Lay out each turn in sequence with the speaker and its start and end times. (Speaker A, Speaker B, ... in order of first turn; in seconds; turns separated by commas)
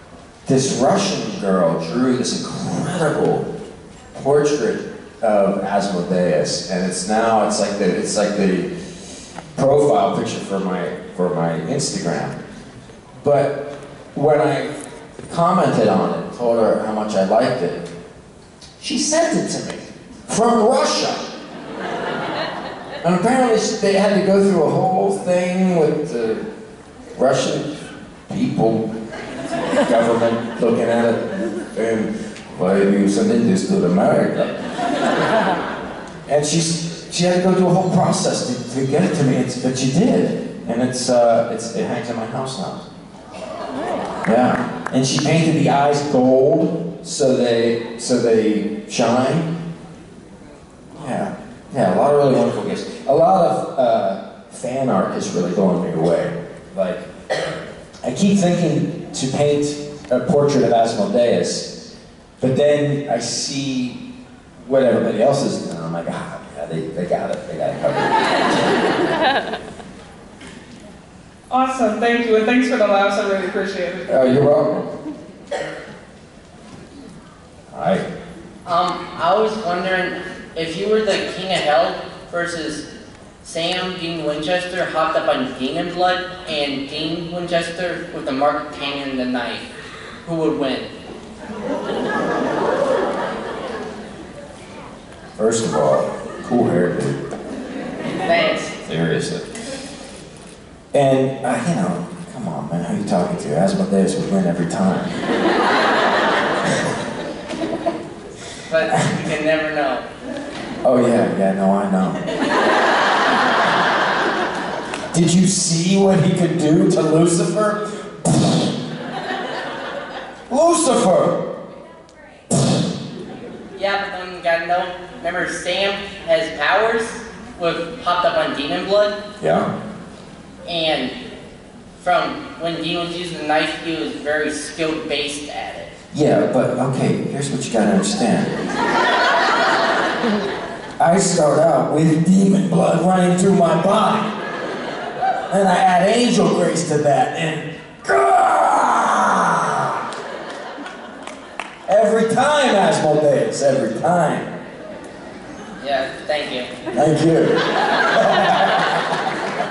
Speaker A: 0.5-3.5, Speaker A: 4.1-8.7, Speaker A: 9.5-12.3, Speaker A: 13.2-14.7, Speaker A: 15.3-17.8, Speaker A: 18.8-21.3, Speaker A: 23.0-26.4, Speaker A: 27.1-28.9, Speaker A: 29.8-34.6, Speaker A: 36.3-42.8, Speaker A: 44.2-49.5, Speaker A: 50.9-57.1, Speaker A: 58.0-61.8, Speaker A: 62.4-64.0, Speaker A: 64.6-68.5, Speaker B: 71.5-74.0, Speaker A: 74.1-74.9, Speaker A: 77.7-78.0, Speaker C: 78.6-82.8, Speaker C: 83.4-89.7, Speaker C: 90.2-90.9, Speaker A: 95.4-97.2, Speaker C: 98.2-98.7, Speaker A: 98.6-99.5, Speaker A: 100.9-105.2, Speaker C: 108.7-110.0, Speaker A: 110.8-112.2, Speaker A: 115.1-118.7, Speaker A: 120.5-121.4, Speaker C: 123.7-129.2, Speaker A: 129.4-129.7, Speaker C: 130.6-131.1, Speaker C: 132.0-135.9, Speaker A: 136.1-138.6, Speaker A: 141.0-144.3, Speaker A: 145.5-150.0, Speaker A: 151.9-154.6, Speaker C: 155.8-156.7, Speaker A: 156.9-158.8